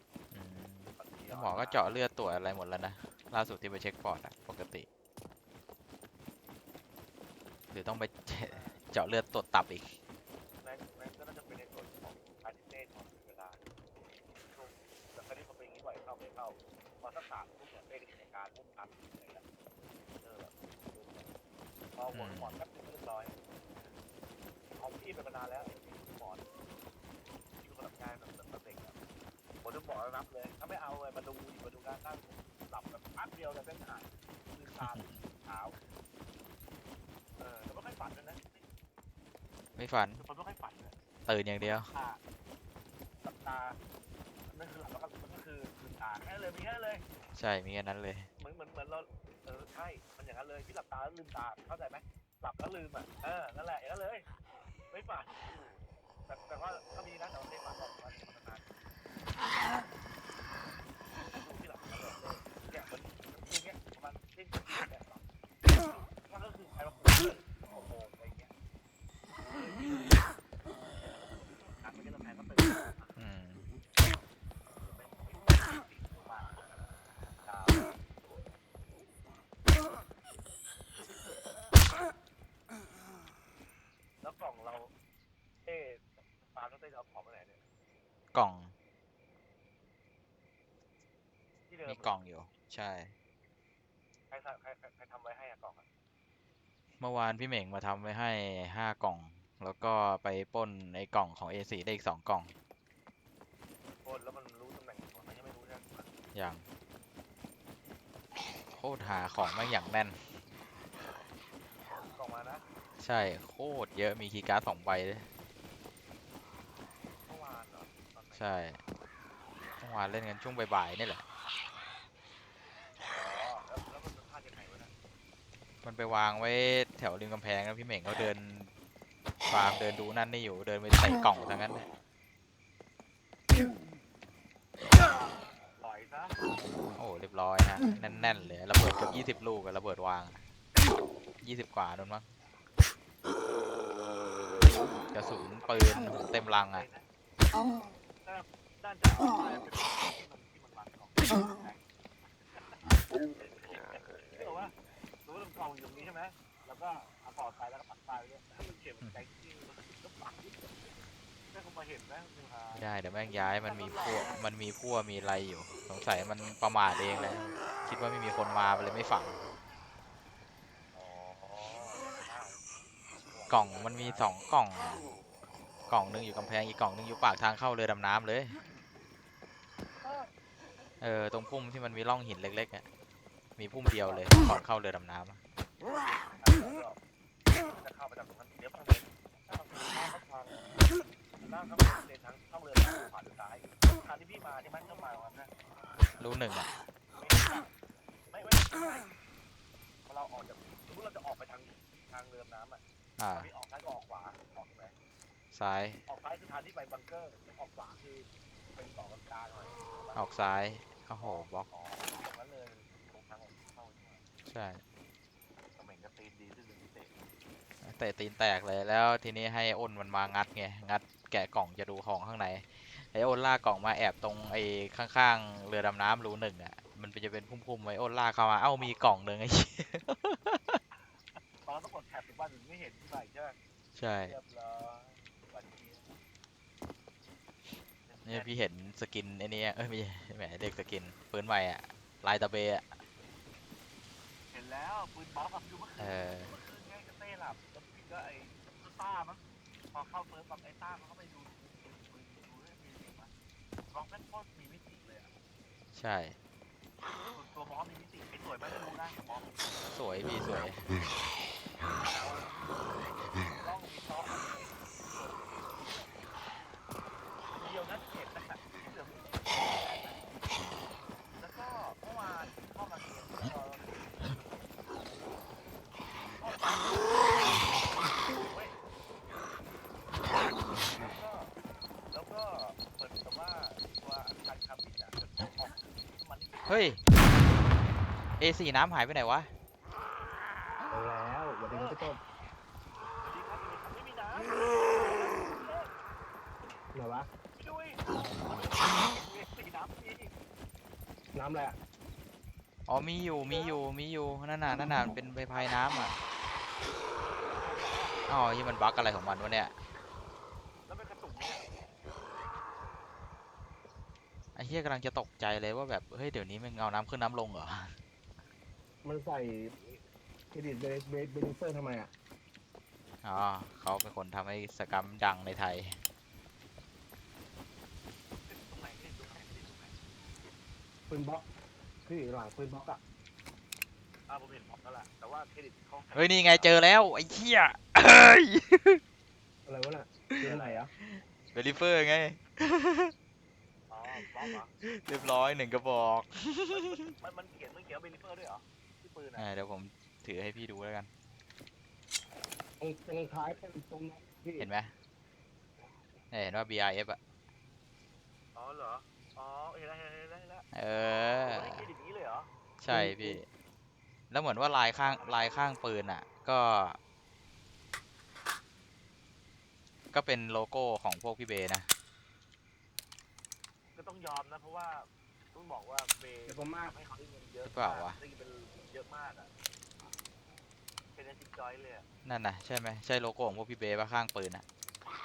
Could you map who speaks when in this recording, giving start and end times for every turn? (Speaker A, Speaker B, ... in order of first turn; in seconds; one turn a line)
Speaker A: 0.3-4.9
Speaker B: 1.0-2.0
Speaker A: 7.7-10.0
Speaker B: 8.4-8.8
Speaker B: 10.6-13.6
Speaker B: 14.4-19.4
Speaker B: 20.2-21.3
Speaker B: 21.9-24.0
Speaker A: 22.1-22.6
Speaker B: 24.6-26.5
Speaker B: 27.6-28.9
Speaker B: 29.6-35.8
Speaker A: 34.8-35.2
Speaker B: 37.4-38.6
Speaker A: 39.8-40.2
Speaker B: 40.2-41.0
Speaker A: 41.2-41.9
Speaker B: 41.8-42.2
Speaker B: 43.2-43.8
Speaker B: 44.5-47.0
Speaker A: 47.3-48.3
Speaker B: 48.4-54.2
Speaker B: 54.9-55.5
Speaker B: 56.3-58.8
Speaker B: 61.3-65.3
Speaker B: 66.2-68.5
Speaker B: 69.5-70.2
Speaker B: 70.9-73.2
Speaker A: 73.2-73.7
Speaker B: 74.8-76.6
Speaker B: 77.4-77.9
Speaker B: 84.2-84.9
Speaker B: 85.6-87.6
Speaker A: 88.3-88.8
Speaker B: 91.7-92.2
Speaker A: 91.9-93.1
Speaker B: 94.3-95.9
Speaker A: 97.0-102.5
Speaker B: 103.9-106.1
Speaker A: 106.3-106.6
Speaker A: 108.7-110.2
Speaker B: 112.1-112.6
Speaker A: 113.0-115.3
Speaker B: 117.2-118.5
Speaker A: 118.3-118.8
Speaker A: 119.8-121.2
Speaker B: 123.1-124.9
Speaker A: 125.8-128.7
Speaker A: 129.5-131.9
Speaker B: 134.9-136.4
Speaker A: 136.9-140.4
Speaker A: 141.4-142.3
Speaker A: 145.1-146.9
Speaker B: 145.6-147.1
Speaker B: 148.2-161.0
Speaker B: 161.5-164.4
Speaker A: 162.7-169.4
Speaker B: 170.9-172.7
Speaker B: 173.3-174.3
Speaker A: 173.5-175.1
Speaker A: 175.9-178.6
Speaker B: 180.0-180.3
Speaker A: 181.0-182.8
Speaker A: 183.6-185.4
Speaker B: 184.0-184.3
Speaker B: 186.4-187.0
Speaker B: 187.7-190.7
Speaker B: 191.4-195.5
Speaker A: 196.2-196.7
Speaker B: 197.1-197.7
Speaker B: 198.3-199.1
Speaker B: 200.1-202.8
Speaker A: 203.2-203.5
Speaker B: 203.3-204.9
Speaker A: 205.5-206.0
Speaker B: 206.1-210.2
Speaker A: 210.1-211.7
Speaker B: 211.2-214.2
Speaker A: 214.5-214.8
Speaker B: 215.8-217.1
Speaker A: 217.8-230.8
Speaker B: 230.9-233.6
Speaker A: 233.9-234.3
Speaker B: 234.2-236.2
Speaker B: 238.1-238.5
Speaker A: 238.2-243.0
Speaker B: 244.5-249.4
Speaker A: 246.0-246.5
Speaker B: 249.9-253.3
Speaker B: 253.9-255.3
Speaker A: 255.9-256.4
Speaker B: 257.3-259.6
Speaker A: 259.9-260.8
Speaker B: 261.9-266.1
Speaker B: 267.6-270.4
Speaker B: 271.4-274.3
Speaker B: 276.3-278.8
Speaker B: 280.8-281.5
Speaker B: 282.1-287.0
Speaker A: 286.7-287.0
Speaker A: 288.4-289.5
Speaker C: 290.9-292.2
Speaker B: 291.7-292.0
Speaker B: 293.2-295.9
Speaker C: 296.9-297.3
Speaker B: 297.6-300.3
Speaker C: 301.3-301.8
Speaker A: 302.9-306.1
Speaker B: 303.4-303.8
Speaker B: 305.5-306.2
Speaker B: 307.5-308.2
Speaker A: 308.3-309.8
Speaker B: 310.9-311.7
Speaker A: 314.5-318.0
Speaker C: 319.0-319.7
Speaker B: 319.8-320.0
Speaker C: 320.5-322.1
Speaker A: 323.2-326.0
Speaker B: 328.5-330.0
Speaker C: 331.1-331.5
Speaker C: 332.0-333.0
Speaker B: 334.3-336.8
Speaker A: 336.1-339.0
Speaker C: 339.6-340.9
Speaker A: 340.3-343.1
Speaker B: 340.4-340.8
Speaker B: 343.9-345.6
Speaker A: 344.8-347.1
Speaker B: 346.7-349.5
Speaker A: 349.4-351.1
Speaker C: 352.8-354.7
Speaker B: 353.2-353.6
Speaker A: 354.6-354.9
Speaker A: 356.3-357.2
Speaker B: 358.5-360.7
Speaker A: 360.7-361.9
Speaker B: 361.4-362.5
Speaker A: 362.8-363.5
Speaker C: 362.9-363.4
Speaker A: 364.3-367.0
Speaker B: 365.1-365.7
Speaker A: 370.1-371.9
Speaker B: 373.9-379.5
Speaker C: 376.5-376.9
Speaker A: 377.6-378.2
Speaker B: 381.1-382.1
Speaker A: 382.2-384.6